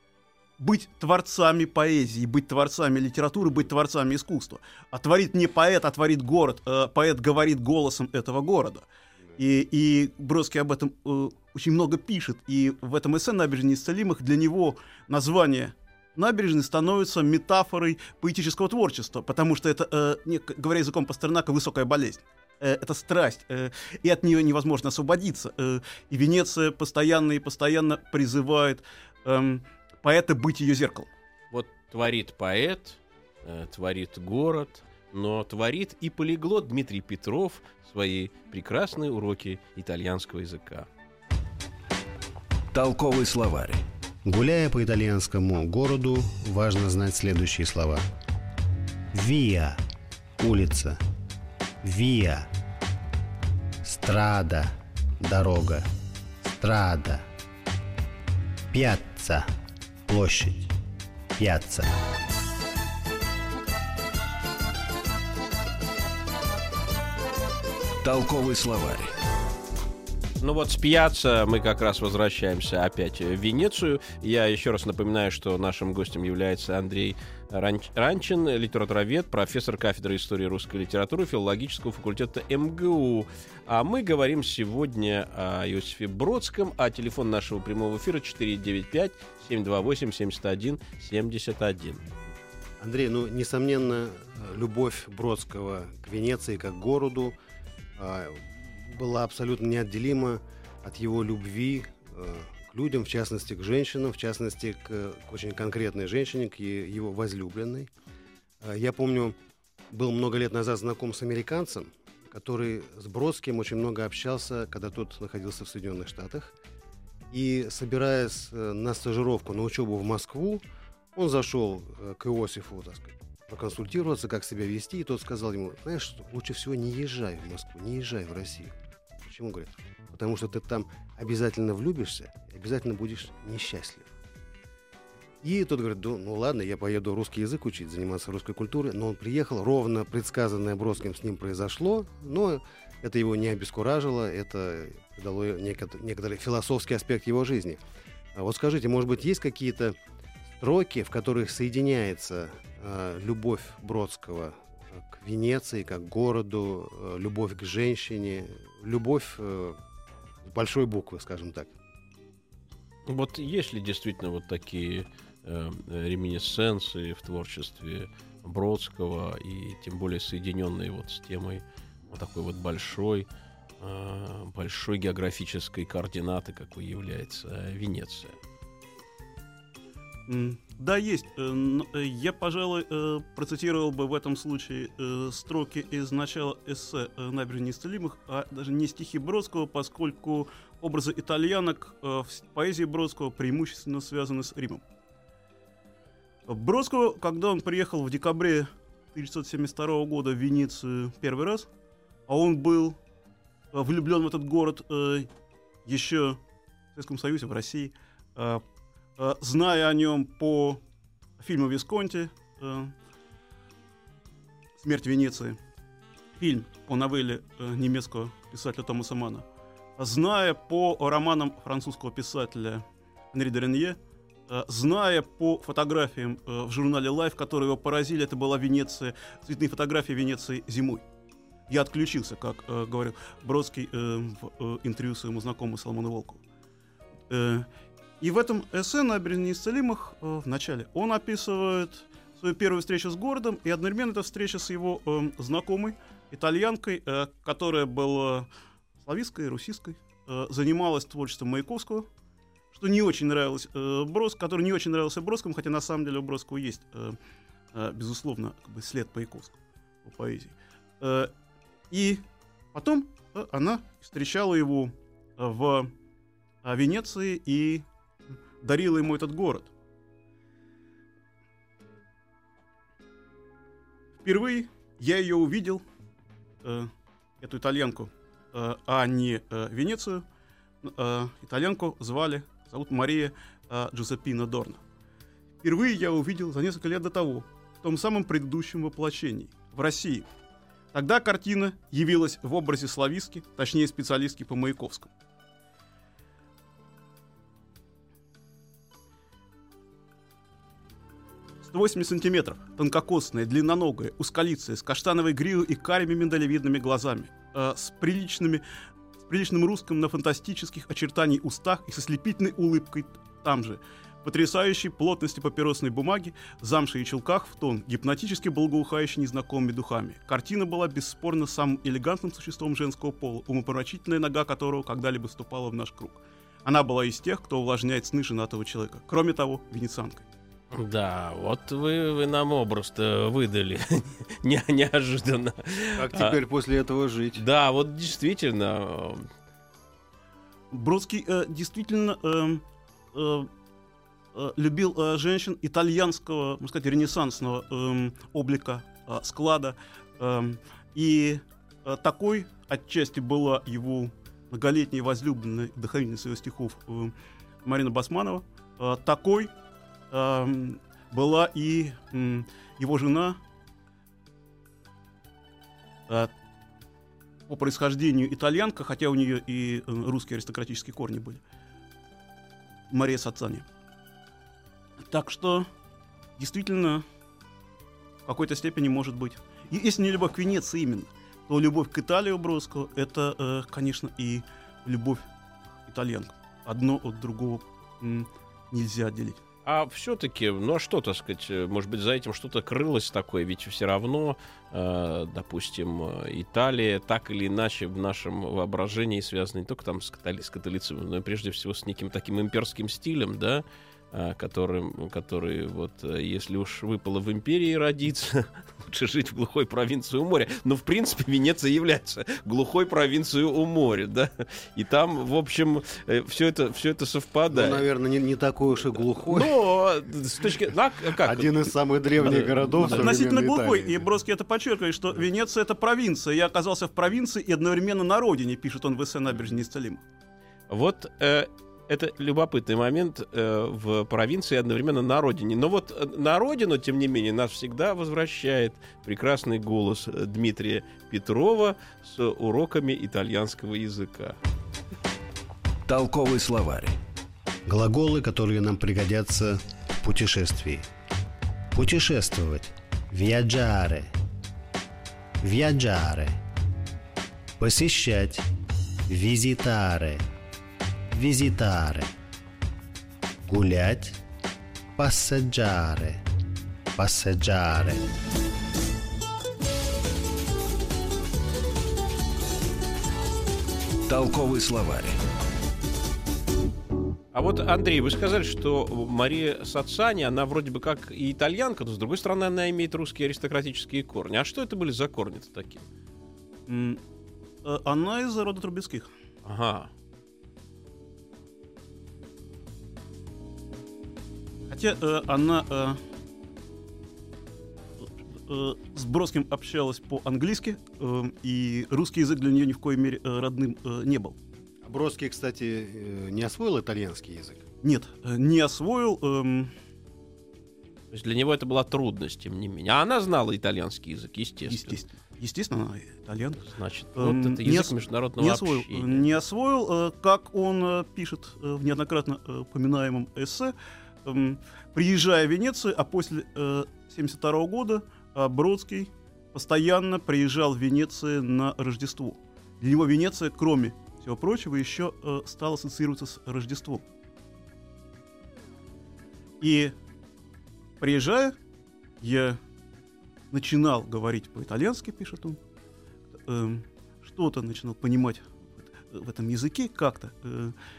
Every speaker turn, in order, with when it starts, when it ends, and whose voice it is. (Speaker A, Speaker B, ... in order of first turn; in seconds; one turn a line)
Speaker A: 0.6-31.1
Speaker B: 31.5-40.9
Speaker C: 42.7-43.8
Speaker D: 44.2-48.0
Speaker D: 49.1-49.8
Speaker D: 50.4-51.0
Speaker D: 51.8-52.5
Speaker D: 53.8-55.9
Speaker D: 56.4-57.2
Speaker D: 58.7-59.5
Speaker D: 60.1-60.7
Speaker D: 61.4-61.9
Speaker C: 68.0-69.1
Speaker B: 70.4-92.0
Speaker D: 92.8-97.3
Speaker D: 98.0-107.9
Speaker D: 108.6-109.3
Speaker D: 109.9-116.5
Speaker D: 117.3-120.6
Speaker D: 121.1-134.1
Speaker D: 135.4-147.8
Speaker D: 148.3-149.9
Speaker D: 150.6-159.8
Speaker D: 160.4-161.7
Speaker B: 163.1-173.3
Speaker B: 173.8-178.4
Speaker A: 180.3-194.8
Speaker A: 196.5-201.7
Speaker A: 202.3-203.0
Speaker A: 203.7-205.3
Speaker A: 205.8-206.4
Speaker A: 206.9-208.6
Speaker A: 209.2-210.8
Speaker A: 211.4-212.9
Speaker A: 214.8-215.6
Speaker A: 216.4-219.4
Speaker A: 220.0-231.0
Speaker A: 231.7-236.4
Speaker A: 237.3-237.7
Speaker A: 238.2-248.5
Speaker A: 249.0-252.1
Speaker A: 252.7-257.2
Speaker A: 257.7-261.3
Speaker A: 261.9-262.2
Speaker A: 262.7-265.9
Speaker A: 266.6-267.9
Speaker A: 268.6-269.7
Speaker A: 274.2-275.8
Speaker A: 276.6-276.9
Speaker A: 277.4-280.2
Speaker A: 280.8-284.8
Speaker A: 285.6-290.3
Speaker A: 290.9-295.1
Speaker A: 301.6-308.6
Speaker A: 309.2-330.2
Speaker B: 330.7-336.4
Speaker D: 335.9-337.4
Speaker B: 337.4-339.3
Speaker A: 340.7-343.5
Speaker A: 344.3-357.1
Speaker A: 357.6-359.5
Speaker A: 360.1-363.4
Speaker A: 367.5-371.4
Speaker A: 372.9-373.6
Speaker A: 375.0-375.7
Speaker A: 376.4-377.0
Speaker A: 378.2-385.2
Speaker A: 385.9-389.4
Speaker B: 389.6-417.8
Speaker D: 417.5-419.5
Speaker B: 419.2-423.1
Speaker D: 421.1-424.0
Speaker A: 422.8-430.0
Speaker B: 430.7-444.4
Speaker C: 445.9-447.0
Speaker D: 447.6-450.9
Speaker D: 451.7-454.1
Speaker D: 455.4-456.4
Speaker D: 457.6-458.5
Speaker D: 459.1-460.2
Speaker D: 461.1-462.1
Speaker D: 463.5-464.2
Speaker D: 464.9-466.2
Speaker D: 466.9-468.0
Speaker C: 474.1-475.2
Speaker B: 477.3-485.9
Speaker A: 486.7-487.0
Speaker A: 487.6-489.1
Speaker B: 489.4-489.9
Speaker A: 494.7-496.0
Speaker A: 498.0-504.4
Speaker D: 504.8-507.6
Speaker A: 507.8-509.7
Speaker B: 511.1-515.0
Speaker A: 514.7-516.6
Speaker B: 516.6-519.3
Speaker A: 517.1-523.7
Speaker A: 524.2-537.0
Speaker A: 539.6-539.9
Speaker A: 541.0-541.5
Speaker A: 542.2-542.6
Speaker A: 543.5-545.6
Speaker A: 546.4-550.7